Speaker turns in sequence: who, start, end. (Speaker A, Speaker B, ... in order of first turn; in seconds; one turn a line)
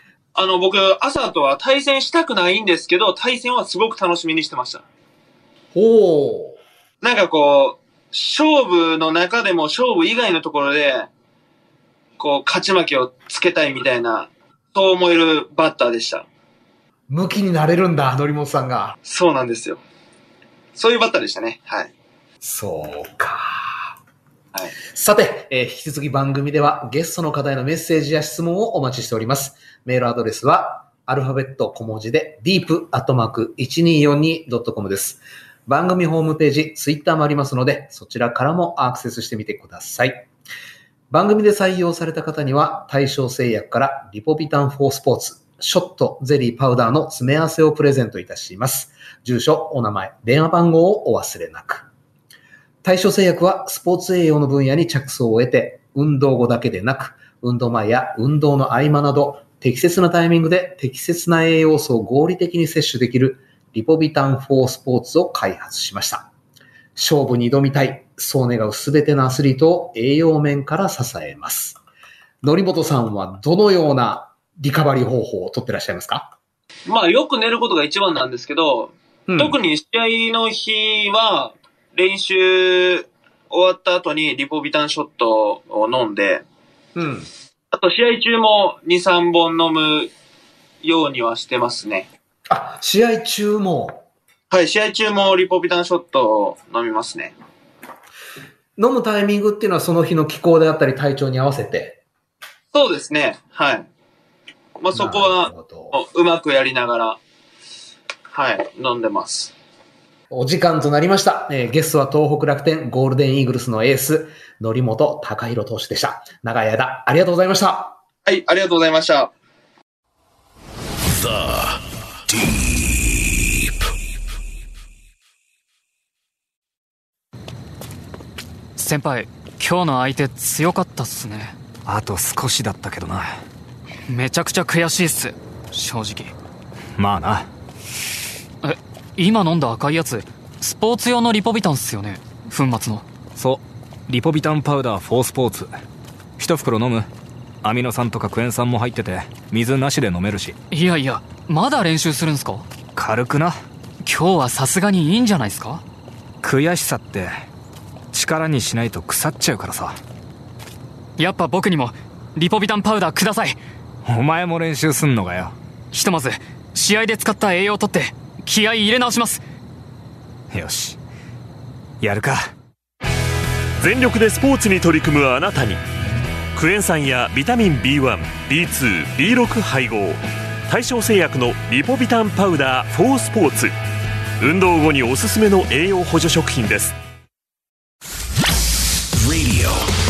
Speaker A: 0.3-4.8
Speaker B: 5.7-6.6
Speaker A: 7.0-11.1
Speaker A: 12.2-16.3
Speaker B: 17.1-19.0
Speaker A: 19.1-19.8
Speaker A: 20.8-21.9
Speaker B: 22.4-23.9
Speaker B: 24.9-40.3
Speaker B: 41.1-51.9
Speaker B: 52.8-66.3
Speaker B: 67.0-71.8
Speaker B: 72.4-76.3
Speaker A: 76.9-86.4
Speaker B: 79.3-79.6
Speaker B: 87.0-87.3
Speaker A: 87.7-90.1
Speaker A: 90.8-92.1
Speaker B: 92.5-94.1
Speaker A: 94.5-97.3
Speaker B: 98.8-102.0
Speaker A: 102.7-103.9
Speaker A: 104.8-107.2
Speaker B: 104.9-106.0
Speaker A: 108.3-109.5
Speaker B: 110.3-118.0
Speaker A: 118.2-119.3
Speaker C: 121.1-123.8
Speaker D: 128.8-131.6
Speaker E: 131.9-133.4
Speaker D: 134.1-136.3
Speaker E: 137.0-137.5
Speaker D: 138.6-143.1
Speaker E: 143.4-145.7
Speaker E: 146.4-147.1
Speaker E: 147.6-150.6
Speaker D: 150.7-152.7
Speaker E: 152.9-153.6
Speaker D: 154.0-155.8
Speaker E: 156.4-157.3
Speaker E: 158.1-160.0
Speaker D: 161.2-163.6
Speaker E: 164.1-165.6
Speaker D: 165.9-169.4
Speaker E: 170.5-171.0
Speaker E: 172.0-172.5
Speaker F: 173.8-175.8
Speaker F: 176.6-183.7
Speaker F: 184.4-186.9
Speaker C: 189.2-189.9